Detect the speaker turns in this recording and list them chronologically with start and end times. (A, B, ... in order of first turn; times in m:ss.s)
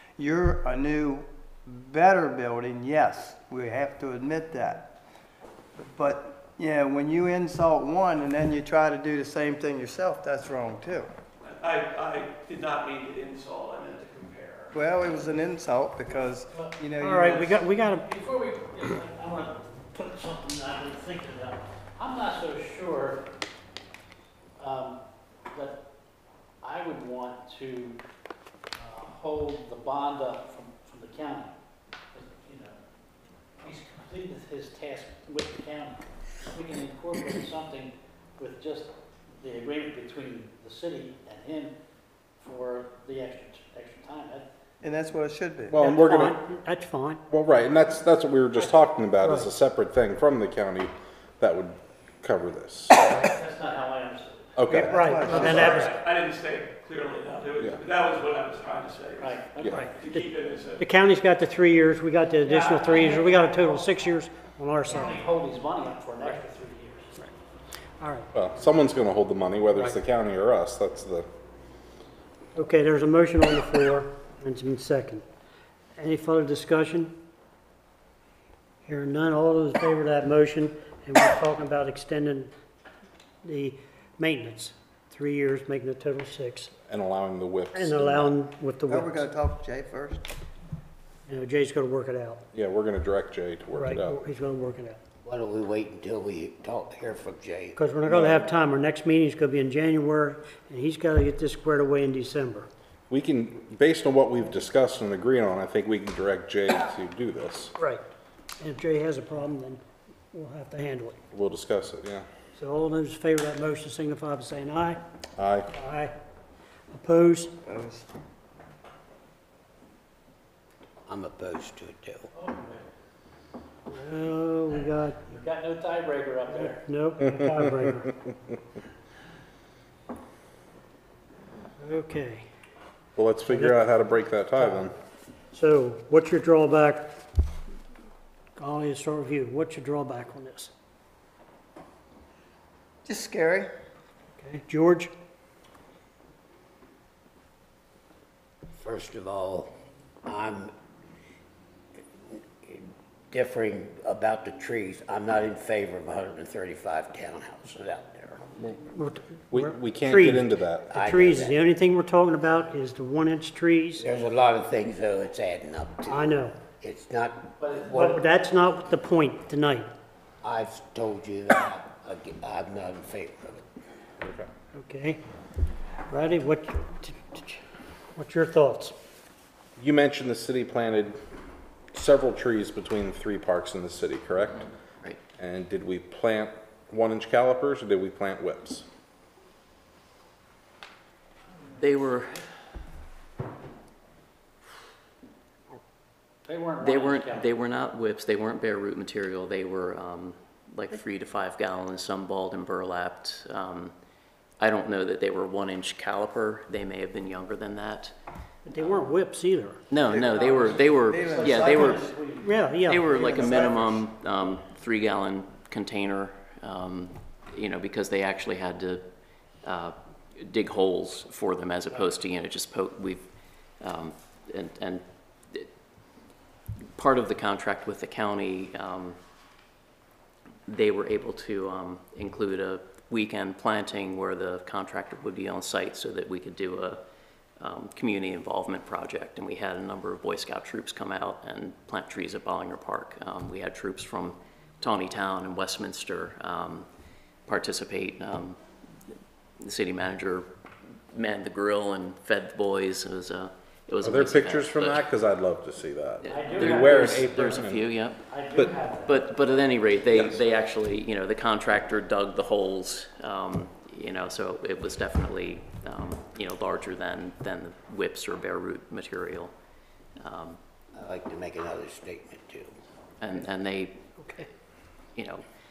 0:00.2-0:04.9 A
0:05.9-0:11.1 A
0:11.4-0:14.7 B
0:14.7-0:17.6 A
0:16.5-0:23.2 C
0:17.0-0:18.1 D
0:24.6-0:25.0 C
0:25.5-0:25.8 C
0:26.6-0:28.0 C
0:28.7-0:31.5 C
0:32.1-0:32.8 C
0:33.6-0:41.7 C
0:42.4-0:44.4 C
0:44.8-0:45.8 A
0:45.7-0:46.4 E
0:45.7-0:47.2 D
0:47.3-0:53.1 E
0:49.2-0:49.5 D
0:52.9-0:54.5 C
0:54.6-0:55.1 E
0:54.7-0:55.9 D
0:54.7-0:56.0 A
0:55.6-1:00.8 B
0:59.2-1:00.1 C
0:59.7-1:05.2 D
1:02.4-1:04.0 C
1:04.8-1:07.3 C
1:08.0-1:08.3 D
1:08.3-1:11.3 E
1:12.5-1:15.2 D
1:16.0-1:17.1 D
1:18.8-1:22.5 D
1:23.4-1:26.7 D
1:26.9-1:28.3 E
1:27.7-1:29.2 D
1:28.9-1:30.2 A
1:31.3-1:32.4 D
1:32.5-1:34.2 E
1:33.7-1:35.0 D
1:35.2-1:37.8 F
1:37.7-1:42.7 D
1:38.0-1:38.4 E
1:43.1-1:47.7 E
1:48.6-1:51.2 D
1:51.3-1:52.2 E
1:52.6-1:55.0 D
1:55.4-1:55.7 E
1:55.7-1:56.1 D
1:56.9-1:57.5 D
1:57.6-1:58.0 A
2:01.1-2:02.3 F
2:02.3-2:02.8 C
2:03.9-2:05.2 D
2:05.2-2:06.8 C
2:06.7-2:08.1 D
2:11.8-2:12.5 D
2:13.2-2:14.9 E
2:13.5-2:13.8 D
2:14.5-2:14.9 D
2:15.5-2:17.2 D
2:18.6-2:20.7 D
2:23.0-2:23.7 A
2:24.4-2:25.1 D
2:28.8-2:29.7 F
2:30.2-2:30.7 F
2:32.3-2:38.4 F
2:38.9-2:44.0 D
2:39.5-2:40.9 E
2:40.9-2:41.6 F
2:44.0-2:48.2 F
2:46.1-2:46.6 D
2:47.6-2:48.1 C
2:47.9-2:49.9 D
2:50.4-2:53.6 F
2:54.2-2:54.5 E
2:54.7-2:55.2 D
2:56.1-2:57.6 D
2:58.2-2:58.9 D
2:59.8-3:01.2 E
3:01.9-3:04.6 E
3:05.4-3:08.8 E
3:11.8-3:12.4 G
3:16.4-3:17.5 C
3:16.8-3:23.9 G
3:24.6-3:28.1 G
3:28.6-3:29.8 D
3:29.9-3:32.1 G
3:30.1-3:32.1 A
3:30.2-3:32.6 C
3:32.4-3:33.3 D
3:32.8-3:39.0 G
3:33.0-3:34.0 A
3:39.6-3:43.2 G
3:43.8-3:45.7 G
3:47.0-3:49.2 G
3:50.7-3:57.0 G
3:57.6-4:06.9 G
4:07.5-4:08.6 G
4:09.6-4:10.5 G
4:11.1-4:15.1 G
4:14.0-4:17.8 E
4:16.2-4:18.2 G
4:16.3-4:17.6 C
4:18.2-4:19.2 C
4:19.0-4:29.5 G
4:30.2-4:30.6 G
4:31.0-4:32.7 F
4:33.2-4:34.0 G
4:34.2-4:34.4 D
4:35.2-4:35.4 G